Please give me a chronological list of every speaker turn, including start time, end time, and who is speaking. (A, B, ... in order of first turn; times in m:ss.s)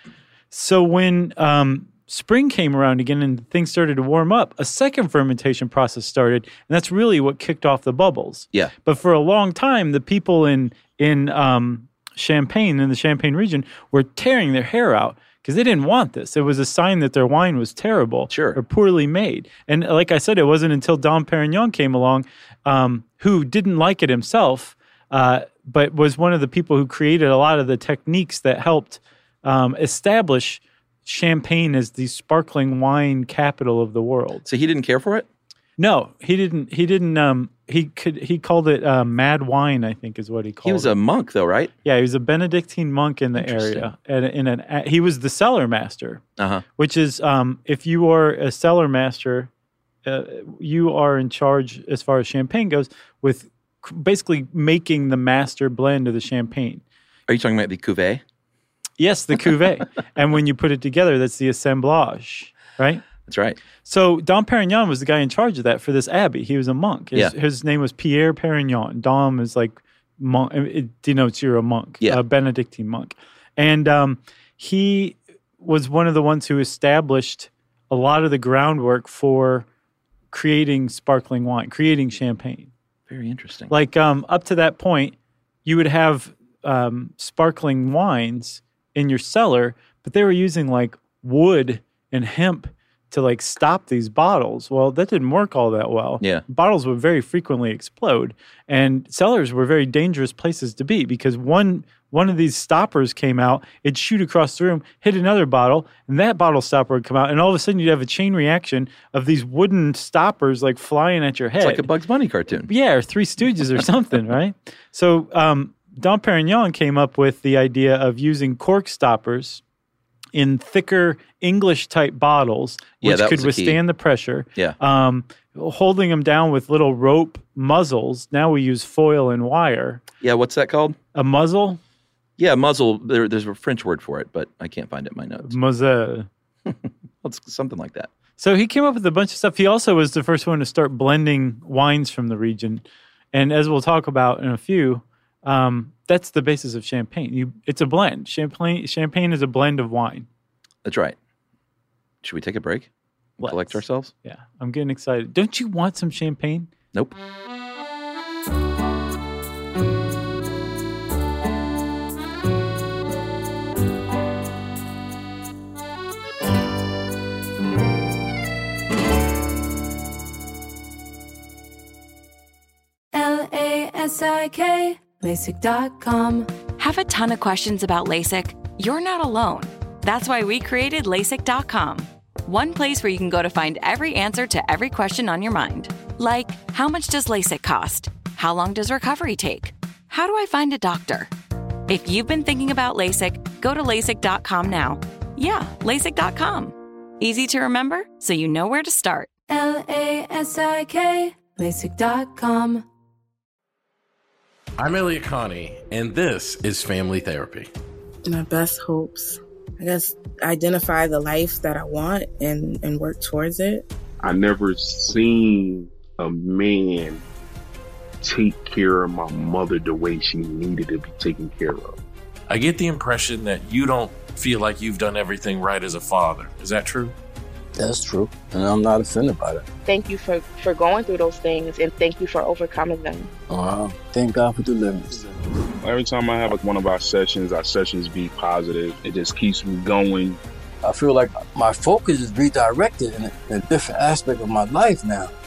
0:00.5-0:34.4 A
0:18.3-0:18.6 B
0:34.4-0:35.3 B
0:35.8-0:40.9 A
0:40.6-0:41.7 B
0:41.8-0:46.2 A
0:43.4-0:43.9 B
0:46.4-0:46.6 B
0:46.8-0:49.5 A
0:50.0-0:56.8 A
0:57.3-0:58.2 B
0:59.0-1:03.0 A
1:03.2-1:03.6 B
1:03.8-1:19.6 A
1:20.3-1:22.7 A
1:23.1-1:23.7 B
1:23.7-1:51.9 A
1:51.6-1:52.7 B
1:52.7-1:59.6 A
2:00.3-2:10.0 A
2:03.0-2:03.8 B
2:10.2-2:11.0 B
2:11.1-2:11.8 A
2:12.4-2:15.5 B
2:15.4-2:16.3 A
2:16.6-2:18.1 B
2:18.4-2:30.3 A
2:30.8-2:31.2 B
2:32.2-2:32.9 B
2:33.4-2:34.1 B
2:33.4-2:36.7 A
2:53.1-2:56.5 C
2:56.8-3:11.3 D
3:11.9-3:19.3 D
3:19.5-3:22.8 C
3:24.8-3:27.7 E
3:28.2-3:33.8 F
3:34.2-3:37.2 G
3:38.2-3:42.0 G
3:42.5-3:47.1 E
3:47.8-3:49.7 H
3:49.8-3:53.3 F
3:53.5-3:55.2 H
3:55.8-4:00.4 G
4:00.8-4:05.3 H